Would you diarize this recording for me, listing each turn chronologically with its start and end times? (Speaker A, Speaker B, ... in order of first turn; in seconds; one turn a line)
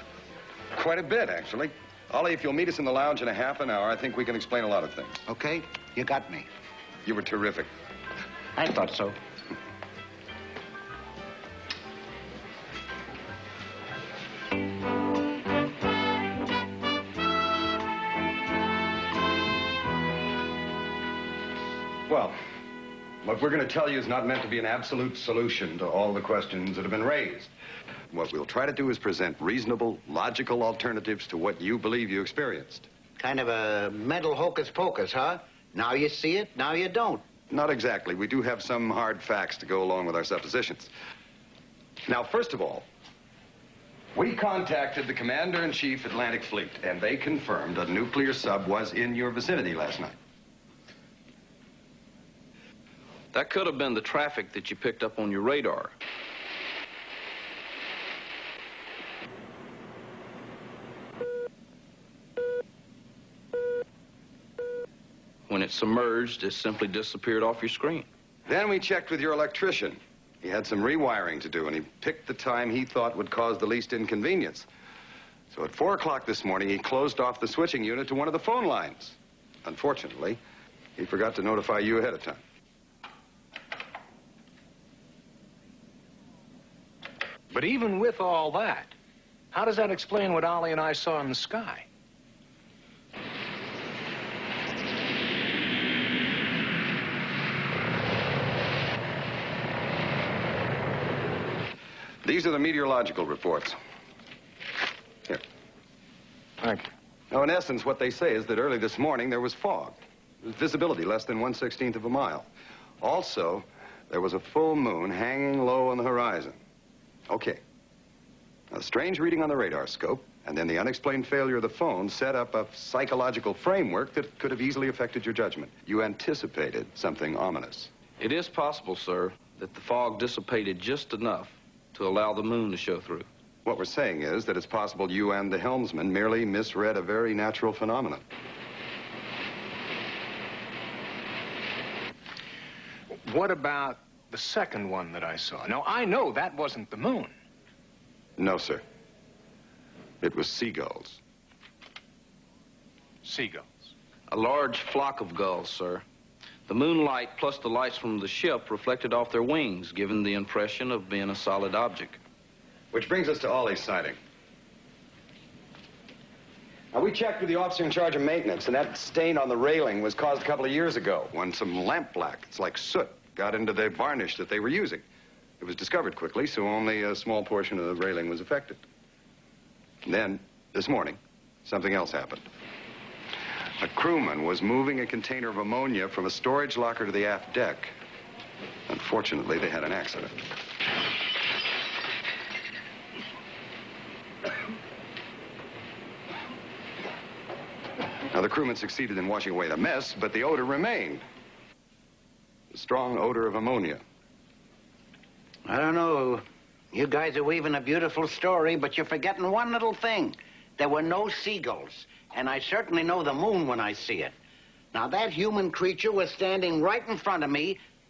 Speaker A: 0.7-5.2
Speaker B: 5.2-6.5
Speaker A: 7.0-7.7
Speaker B: 8.6-9.2
Speaker A: 22.1-22.4
Speaker A: 23.2-27.5
Speaker A: 28.1-32.9
Speaker B: 33.2-37.2
Speaker A: 37.5-40.9
Speaker A: 42.1-42.9
Speaker A: 44.1-50.1
Speaker C: 53.3-55.9
Speaker C: 65.5-68.1
Speaker A: 68.5-74.7
Speaker A: 75.5-80.4
Speaker A: 81.0-82.4
Speaker D: 87.5-88.9
Speaker D: 89.5-91.8
Speaker A: 102.2-103.8
Speaker D: 106.6-106.9
Speaker A: 107.3-112.5
Speaker A: 113.0-116.6
Speaker A: 117.3-117.6
Speaker A: 118.7-127.9
Speaker C: 128.2-133.3
Speaker A: 133.6-138.2
Speaker D: 143.2-147.3
Speaker A: 148.4-148.8
Speaker A: 150.2-151.2
Speaker D: 153.2-153.9
Speaker C: 154.3-156.0
Speaker C: 156.7-162.2
Speaker A: 162.9-164.2
Speaker A: 166.9-175.0
Speaker A: 175.6-178.8
Speaker A: 180.0-182.4
Speaker A: 183.8-187.9
Speaker A: 188.9-190.3
Speaker A: 198.3-201.2
Speaker A: 202.7-204.0
Speaker B: 205.7-214.3
Speaker B: 214.9-217.8